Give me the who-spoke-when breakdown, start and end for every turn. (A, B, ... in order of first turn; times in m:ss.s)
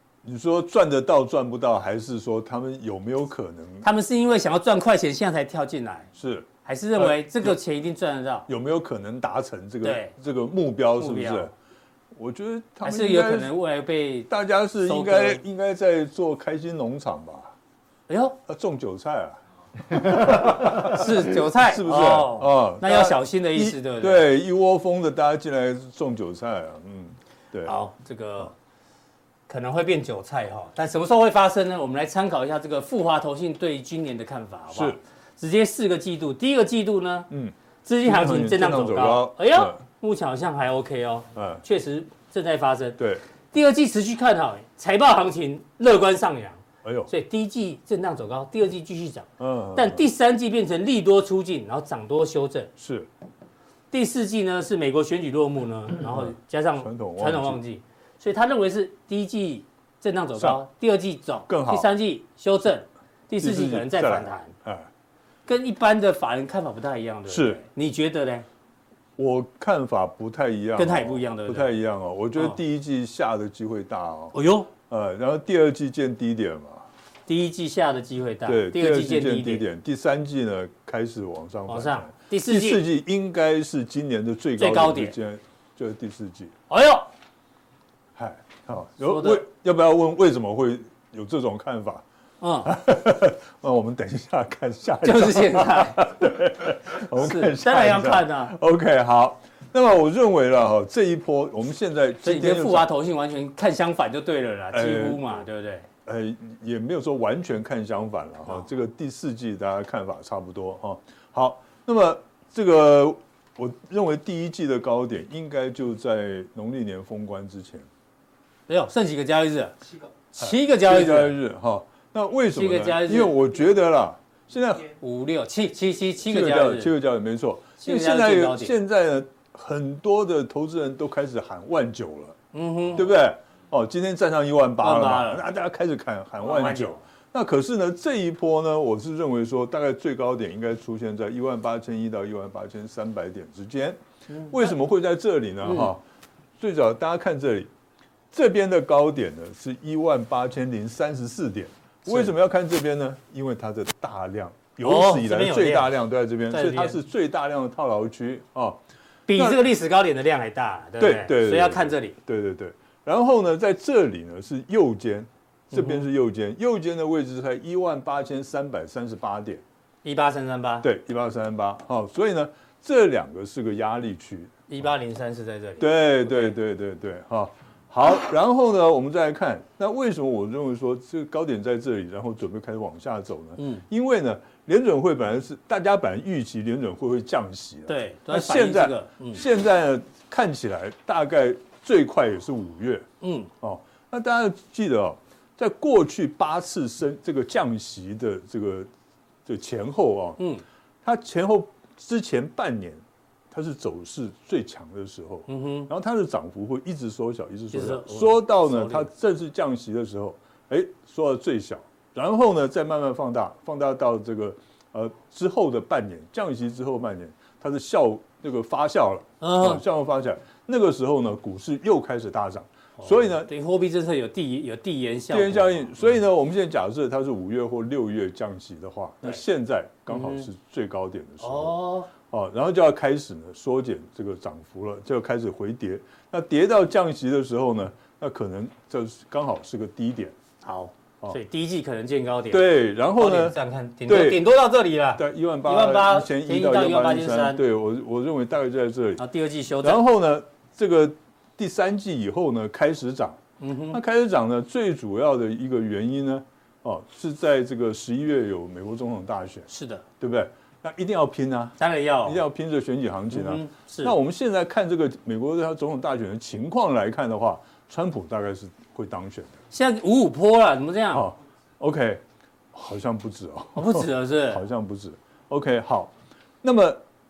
0:00.2-0:03.9 A
0:03.8-0:06.1 B
0:06.2-0:07.6 A
0:06.6-0:08.5 B
0:08.5-0:11.5 A
0:09.8-0:10.1 B
0:11.0-0:11.5 B
0:12.1-0:13.6 A
0:12.8-0:14.3 B
0:14.3-0:17.5 A
0:14.8-0:15.4 B
0:18.1-0:18.4 B
0:18.5-0:27.8 A
0:20.1-0:24.3 B
0:27.6-0:28.5 B
0:29.5-0:37.3 B
0:34.7-0:35.0 A
0:37.3-0:39.8 A
0:37.8-0:43.0 B
0:41.4-0:41.6 A
0:43.5-0:52.7 B
0:46.8-0:47.1 A
0:49.4-0:50.0 A
0:52.8-0:53.1 A
0:53.9-1:04.5 B
0:56.1-0:57.6 A
1:01.5-1:01.9 A
1:03.4-1:04.9 A
1:05.5-1:08.5 B
1:07.3-1:07.6 A
1:09.2-1:14.4 A
1:10.8-1:11.7 B
1:14.3-1:14.7 B
1:14.9-1:16.8 A
1:17.3-1:19.6 B
1:18.5-1:26.5 A
1:21.7-1:22.8 B
1:24.6-1:25.2 B
1:26.7-1:27.1 B
1:28.2-1:32.0 A
1:29.0-1:29.4 B
1:32.4-1:32.7 B
1:32.6-1:42.9 A
1:35.0-1:36.1 B
1:37.1-1:38.6 B
1:42.2-1:45.9 B
1:44.7-1:45.4 A
1:46.1-1:57.9 A
1:58.7-1:59.8 B
2:00.3-2:01.4 B
2:00.4-2:04.9 A
2:02.6-2:03.4 B
2:05.0-2:06.9 B
2:06.2-2:12.4 A
2:07.8-2:08.8 B
2:12.5-2:13.1 B
2:12.9-2:26.0 A
2:14.8-2:15.4 B
2:16.4-2:17.0 B
2:24.3-2:24.6 B
2:25.6-2:25.9 B
2:26.6-2:27.7 A
2:28.3-2:38.8 A
2:34.8-2:36.0 B
2:36.5-2:37.0 B
2:39.3-2:42.2 B
2:39.3-2:39.6 A
2:41.0-2:49.6 A
2:45.7-2:46.0 B
2:50.0-2:50.9 B
2:50.8-2:54.6 A
2:54.7-2:56.6 B
2:55.8-3:13.1 A
3:03.6-3:03.8 B
3:07.9-3:09.4 B
3:13.2-3:13.5 B
3:13.6-3:18.9 A
3:19.5-3:20.4 A
3:21.0-3:43.5 A
3:25.5-3:25.9 B
3:27.7-3:29.1 B
3:39.4-3:39.8 B
3:43.0-3:45.9 B
3:45.3-4:00.4 A
3:50.1-3:50.5 B
3:51.4-3:52.1 B
4:00.6-4:07.6 B
4:02.5-4:04.5 A
4:05.2-4:09.2 A
4:09.2-4:10.0 B
4:09.8-4:13.4 A
4:13.6-4:14.0 B
4:13.9-4:19.7 A
4:19.7-4:20.0 B
4:20.2-4:29.6 A
4:21.8-4:22.4 B
4:23.3-4:24.2 B
4:29.7-4:31.3 B
4:31.1-4:37.0 A
4:33.8-4:34.6 B